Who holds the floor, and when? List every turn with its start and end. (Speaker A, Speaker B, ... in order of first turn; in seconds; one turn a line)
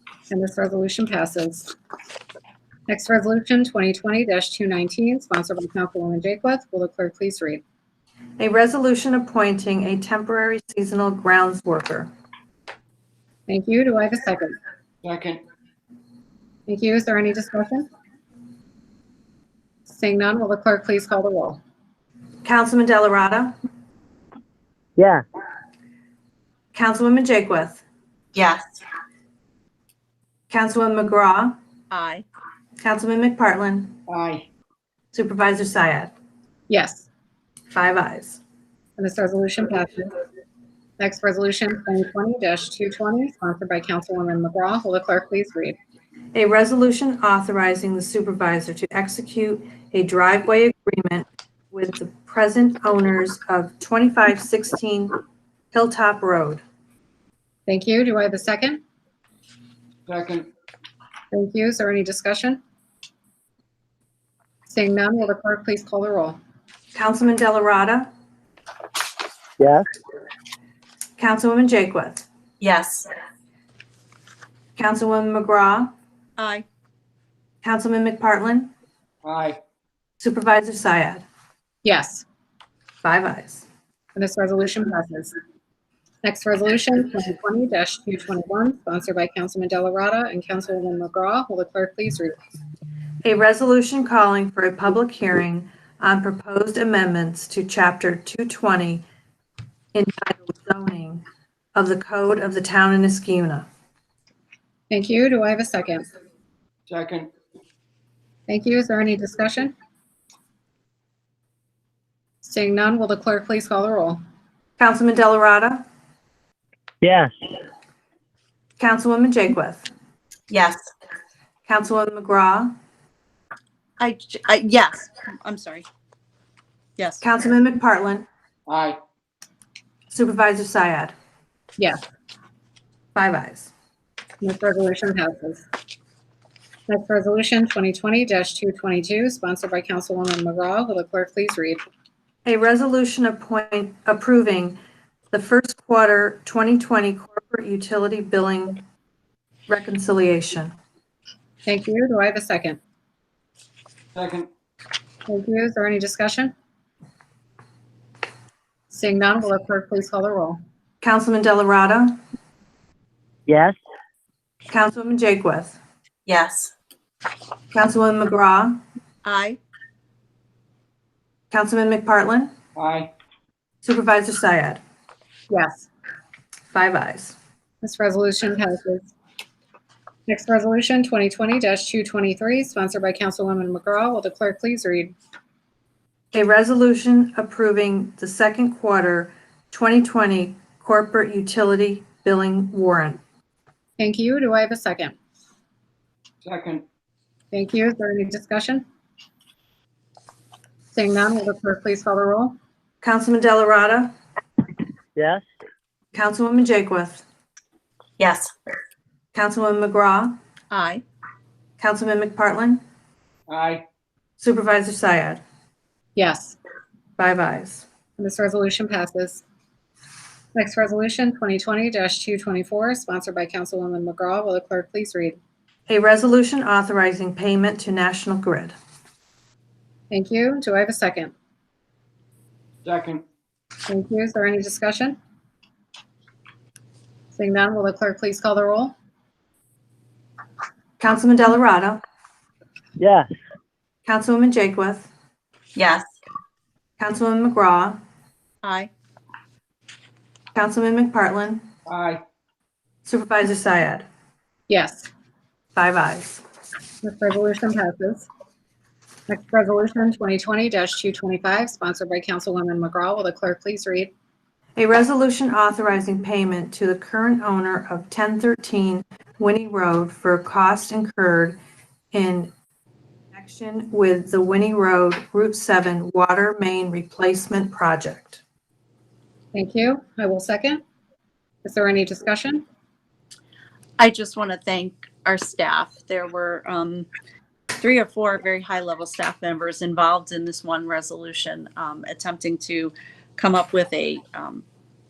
Speaker A: 0.3-1.7
Speaker A: 2.9-7.6
Speaker B: 8.4-12.1
Speaker A: 13.5-14.5
Speaker C: 15.0-15.4
Speaker A: 16.7-17.9
Speaker A: 19.9-21.6
Speaker B: 22.4-23.5
Speaker D: 25.0-25.2
Speaker B: 26.7-27.8
Speaker E: 28.3-28.6
Speaker B: 30.5-31.6
Speaker E: 31.9-32.2
Speaker B: 32.8-34.0
Speaker C: 34.1-34.5
Speaker B: 35.1-36.1
Speaker A: 36.7-37.1
Speaker B: 37.7-38.4
Speaker A: 39.0-40.1
Speaker A: 41.0-45.8
Speaker B: 46.3-55.1
Speaker B: 55.7-56.6
Speaker A: 57.7-58.8
Speaker C: 60.1-60.5
Speaker A: 61.3-62.6
Speaker A: 64.7-66.4
Speaker B: 66.9-68.1
Speaker D: 69.6-69.9
Speaker B: 71.2-72.2
Speaker E: 72.6-73.1
Speaker B: 74.8-75.9
Speaker E: 76.4-76.6
Speaker B: 77.6-78.7
Speaker C: 79.2-79.6
Speaker B: 80.2-81.2
Speaker A: 81.8-82.2
Speaker B: 83.0-83.7
Speaker A: 84.1-85.3
Speaker A: 86.2-92.3
Speaker B: 93.2-99.0
Speaker B: 99.9-101.2
Speaker B: 101.7-103.7
Speaker A: 104.9-106.0
Speaker C: 106.9-107.3
Speaker A: 108.5-109.7
Speaker A: 112.4-114.2
Speaker B: 114.8-115.8
Speaker D: 117.0-117.3
Speaker B: 118.8-119.9
Speaker E: 120.5-120.8
Speaker B: 121.7-122.7
Speaker E: 124.0-125.8
Speaker E: 127.0-127.2
Speaker B: 127.2-128.2
Speaker C: 128.7-129.0
Speaker B: 130.1-131.1
Speaker B: 133.1-133.7
Speaker A: 134.4-135.6
Speaker A: 136.9-141.9
Speaker B: 142.4-144.8
Speaker B: 145.3-148.8
Speaker B: 149.7-150.7
Speaker A: 151.7-152.8
Speaker C: 154.1-154.5
Speaker A: 155.3-156.5
Speaker A: 158.9-160.6
Speaker B: 161.0-162.2
Speaker D: 163.5-163.8
Speaker B: 164.7-165.8
Speaker E: 166.3-166.7
Speaker B: 167.7-168.8
Speaker E: 169.2-169.6
Speaker B: 171.5-172.5
Speaker C: 172.8-173.1
Speaker B: 173.8-174.8
Speaker A: 175.5-175.9
Speaker B: 176.7-177.3
Speaker A: 177.8-179.1
Speaker A: 180.3-185.1
Speaker B: 186.3-193.2
Speaker A: 194.0-195.1
Speaker C: 196.4-196.8
Speaker A: 197.5-198.8
Speaker A: 200.9-202.6
Speaker B: 203.0-204.1
Speaker D: 205.2-205.4
Speaker B: 206.1-207.2
Speaker E: 208.2-208.5
Speaker B: 209.3-210.4
Speaker E: 210.7-211.0
Speaker B: 211.8-212.8
Speaker C: 213.5-213.8
Speaker B: 214.4-215.4
Speaker A: 216.1-216.6
Speaker B: 217.2-217.8
Speaker A: 218.2-219.4
Speaker A: 220.5-225.4
Speaker B: 225.9-228.8
Speaker A: 230.1-231.3
Speaker C: 232.8-233.2
Speaker A: 233.9-235.2
Speaker A: 237.3-238.9
Speaker B: 241.0-242.0
Speaker D: 243.0-243.3
Speaker B: 244.1-245.1
Speaker E: 245.8-246.0
Speaker B: 247.0-248.0
Speaker E: 248.6-248.9
Speaker B: 250.5-251.7
Speaker C: 251.9-252.2
Speaker B: 253.0-254.1
Speaker A: 254.7-255.1
Speaker B: 255.7-256.4
Speaker A: 257.0-258.3
Speaker A: 259.3-264.1
Speaker B: 264.8-271.6
Speaker B: 272.1-272.5
Speaker B: 273.3-278.4
Speaker A: 279.5-280.8
Speaker A: 281.6-282.6
Speaker E: 284.0-287.1
Speaker E: 287.7-294.6